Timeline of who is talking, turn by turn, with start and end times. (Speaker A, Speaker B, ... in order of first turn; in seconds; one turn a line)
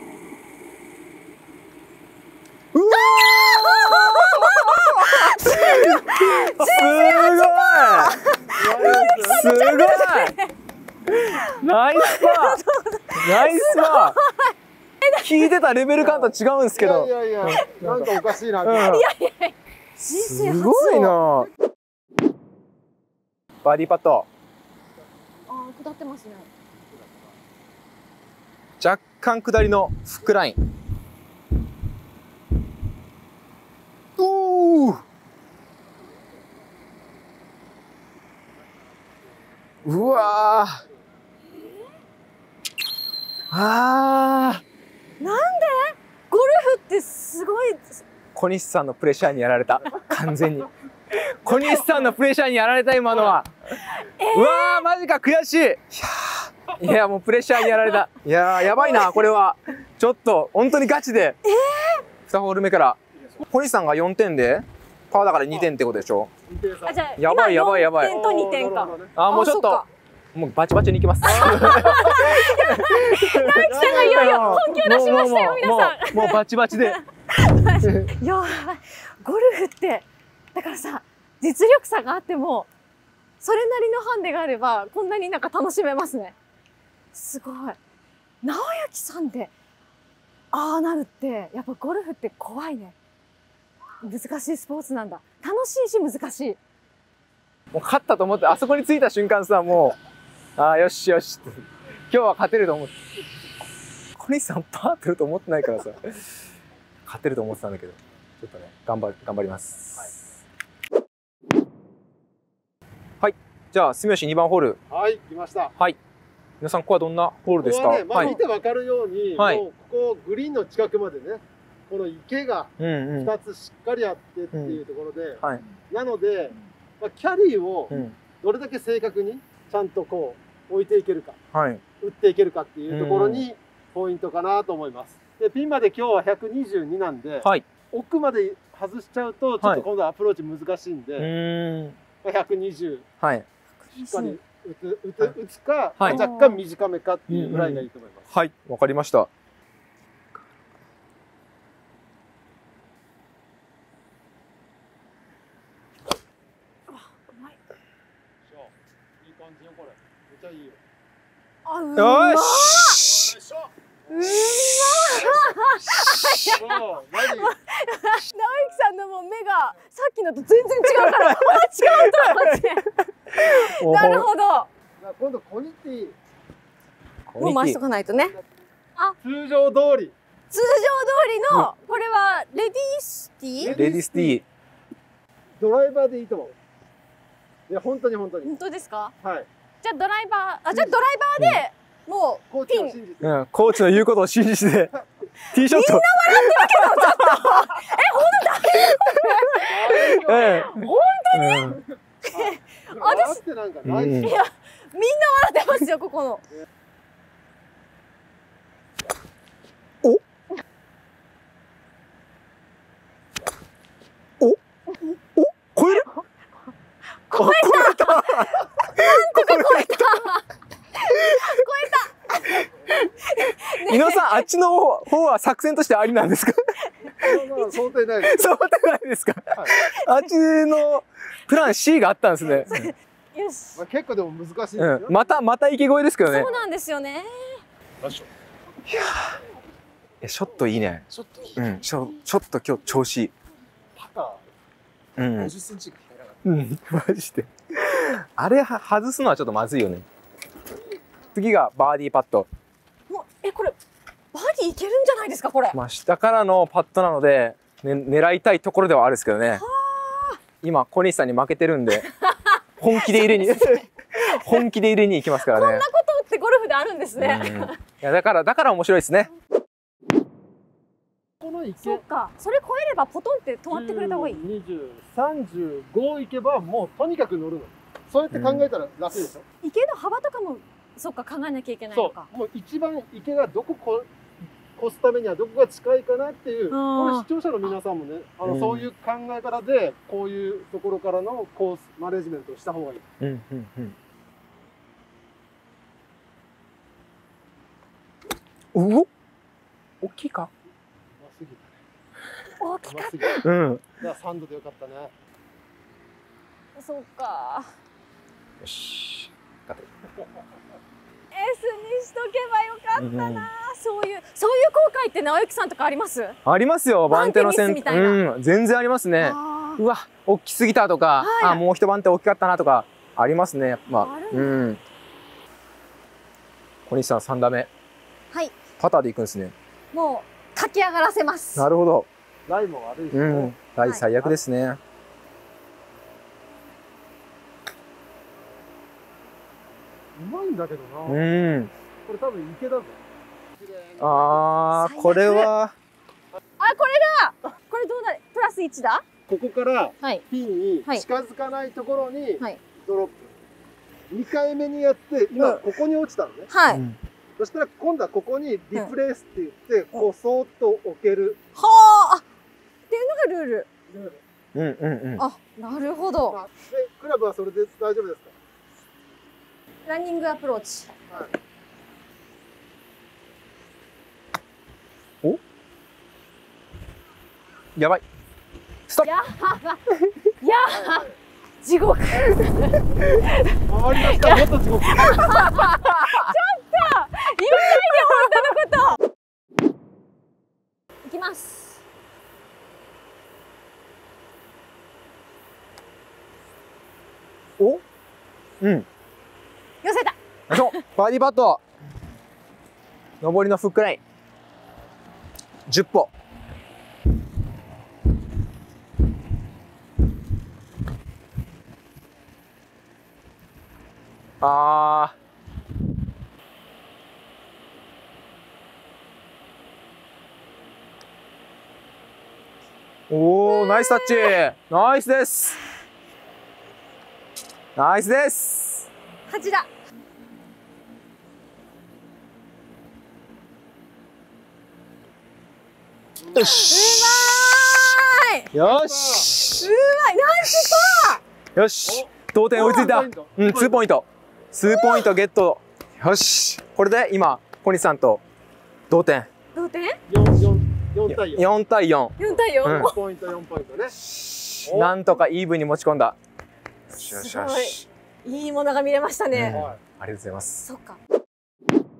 Speaker A: 2.7-8.2
Speaker B: 2.9-10.5
Speaker C: 8.5-9.6
Speaker A: 8.8-10.3
Speaker A: 11.1-12.6
Speaker B: 11.9-15.5
Speaker A: 13.1-14.2
Speaker A: 15.2-18.1
Speaker C: 16.0-18.9
Speaker A: 18.6-19.1
Speaker B: 18.7-21.2
Speaker A: 20.0-21.5
Speaker A: 23.6-24.3
Speaker B: 25.5-26.5
Speaker C: 26.8-27.4
Speaker A: 28.8-30.6
Speaker A: 34.2-35.0
Speaker A: 39.8-40.8
Speaker C: 39.9-40.3
Speaker A: 43.5-44.6
Speaker B: 45.2-48.0
Speaker A: 48.3-61.4
Speaker C: 51.5-52.0
Speaker C: 53.1-53.4
Speaker B: 53.8-54.8
Speaker B: 57.6-58.0
Speaker B: 58.5-59.3
Speaker B: 61.4-62.0
Speaker A: 62.3-66.3
Speaker C: 66.5-67.0
Speaker B: 66.8-69.9
Speaker A: 67.2-68.2
Speaker C: 68.0-69.1
Speaker A: 69.2-69.8
Speaker A: 70.3-77.0
Speaker B: 71.2-82.7
Speaker C: 71.2-72.1
Speaker C: 73.6-74.8
Speaker A: 77.8-78.1
Speaker B: 83.4-86.3
Speaker B: 87.1-87.8
Speaker B: 88.4-89.5
Speaker B: 90.5-92.9
Speaker B: 94.0-96.6
Speaker A: 97.7-100.0
Speaker A: 100.6-102.9
Speaker A: 104.2-106.3
Speaker A: 107.0-110.2
Speaker A: 113.2-114.8
Speaker C: 114.9-115.7
Speaker A: 116.6-118.3
Speaker C: 117.5-131.4
Speaker A: 119.4-119.6
Speaker A: 122.8-123.3
Speaker A: 124.5-124.8
Speaker A: 127.9-128.2
Speaker A: 131.5-131.8
Speaker C: 132.0-141.3
Speaker A: 132.9-133.4
Speaker A: 141.2-142.0
Speaker C: 142.2-143.1
Speaker A: 143.2-143.5
Speaker B: 143.9-144.4
Speaker C: 144.0-148.3
Speaker B: 146.0-146.6
Speaker A: 147.3-149.3
Speaker B: 156.9-157.6
Speaker C: 158.4-160.8
Speaker B: 161.6-163.3
Speaker A: 161.9-163.3
Speaker C: 163.2-164.3
Speaker B: 164.1-172.8
Speaker A: 164.3-166.6
Speaker C: 166.5-167.6
Speaker A: 170.8-174.3
Speaker B: 173.4-174.7
Speaker C: 175.0-176.2
Speaker A: 177.3-177.8
Speaker B: 177.4-178.3
Speaker C: 179.2-180.1
Speaker B: 180.5-183.8
Speaker C: 183.6-184.4
Speaker A: 183.6-184.4
Speaker C: 185.6-186.5
Speaker C: 187.7-188.5
Speaker B: 188.4-189.1
Speaker C: 189.2-189.5
Speaker B: 189.8-193.0
Speaker C: 190.7-191.0
Speaker C: 192.5-193.3
Speaker A: 193.2-194.9
Speaker A: 195.5-197.3
Speaker B: 195.5-203.4
Speaker C: 199.7-200.6
Speaker A: 199.8-201.8
Speaker C: 202.3-204.4
Speaker A: 203.8-204.3
Speaker B: 204.2-206.4
Speaker A: 215.3-216.1
Speaker B: 217.3-220.4
Speaker A: 217.3-220.3
Speaker B: 221.0-224.4
Speaker A: 221.1-221.5
Speaker A: 223.6-226.6
Speaker B: 227.1-227.8
Speaker C: 227.2-228.5
Speaker A: 228.2-232.9
Speaker B: 229.9-230.3
Speaker B: 232.5-233.8
Speaker C: 233.7-235.4
Speaker A: 234.8-236.5
Speaker B: 236.3-237.6
Speaker C: 238.0-238.3
Speaker A: 238.9-239.4
Speaker A: 240.2-243.3
Speaker C: 241.1-241.8
Speaker C: 243.9-244.4
Speaker A: 245.2-245.6
Speaker C: 245.4-246.4
Speaker A: 246.4-250.1
Speaker A: 251.3-252.5
Speaker B: 253.1-253.8
Speaker B: 254.3-255.8
Speaker A: 255.7-259.6
Speaker B: 259.5-260.4
Speaker A: 260.6-262.1
Speaker B: 262.1-263.8
Speaker A: 262.8-265.8
Speaker B: 265.4-267.8
Speaker A: 267.2-269.3
Speaker C: 271.4-272.0
Speaker B: 271.8-274.4
Speaker C: 273.7-279.4
Speaker A: 278.3-278.7
Speaker B: 279.6-282.3
Speaker C: 281.9-284.1
Speaker C: 284.8-293.0
Speaker B: 286.7-287.7
Speaker A: 288.4-288.9
Speaker A: 293.2-293.9
Speaker A: 298.7-299.1
Speaker A: 300.0-300.5
Speaker C: 301.2-301.8
Speaker B: 302.6-303.4
Speaker C: 302.8-303.4
Speaker A: 303.3-303.8
Speaker C: 304.0-305.1
Speaker B: 306.8-307.7
Speaker A: 308.6-309.9
Speaker B: 311.3-316.4
Speaker A: 312.9-313.5
Speaker A: 316.4-324.8
Speaker B: 317.1-318.2
Speaker B: 319.2-319.8
Speaker B: 321.2-321.6
Speaker B: 323.9-324.5
Speaker A: 326.9-327.7
Speaker A: 328.8-329.5
Speaker B: 329.9-331.6
Speaker A: 331.6-332.1
Speaker C: 332.5-333.5
Speaker A: 333.1-334.8
Speaker C: 340.1-341.2
Speaker A: 341.1-341.7
Speaker C: 342.1-343.0
Speaker C: 343.5-344.4
Speaker A: 344.0-345.7
Speaker B: 344.7-345.5
Speaker B: 346.6-349.0
Speaker C: 349.3-353.3
Speaker C: 354.1-356.5
Speaker B: 355.4-355.6
Speaker B: 356.5-356.8
Speaker A: 356.7-357.0
Speaker C: 357.4-361.4
Speaker B: 361.6-362.2
Speaker B: 362.9-363.7
Speaker C: 363.9-364.2
Speaker A: 364.5-365.2
Speaker B: 365.2-366.4
Speaker C: 366.3-368.3
Speaker B: 369.9-370.9
Speaker A: 377.8-378.0
Speaker B: 379.0-379.8
Speaker B: 380.4-381.1
Speaker C: 380.7-381.1
Speaker B: 381.6-389.0
Speaker C: 383.7-385.2
Speaker A: 385.2-386.3
Speaker B: 391.0-391.8
Speaker A: 398.6-398.9
Speaker B: 399.8-400.8
Speaker A: 400.5-401.6
Speaker A: 403.2-404.0
Speaker A: 405.7-406.1
Speaker A: 414.4-415.1
Speaker A: 423.1-425.6
Speaker B: 423.4-424.4
Speaker A: 427.8-428.9
Speaker B: 429.3-429.7
Speaker C: 436.2-436.5
Speaker A: 436.3-437.9
Speaker B: 436.3-438.5
Speaker A: 438.5-439.7
Speaker C: 438.6-439.3
Speaker B: 439.5-441.2
Speaker A: 440.5-448.2
Speaker C: 441.8-443.8
Speaker B: 442.5-442.9
Speaker B: 444.6-445.1
Speaker A: 448.9-449.3
Speaker B: 449.5-450.0
Speaker C: 450.1-451.5
Speaker A: 451.1-452.9
Speaker B: 452.2-453.0
Speaker C: 452.6-453.9
Speaker A: 454.1-456.2
Speaker C: 454.6-454.9
Speaker A: 456.9-457.9
Speaker B: 457.1-459.6
Speaker A: 459.3-460.6
Speaker C: 459.5-459.8
Speaker B: 460.6-461.0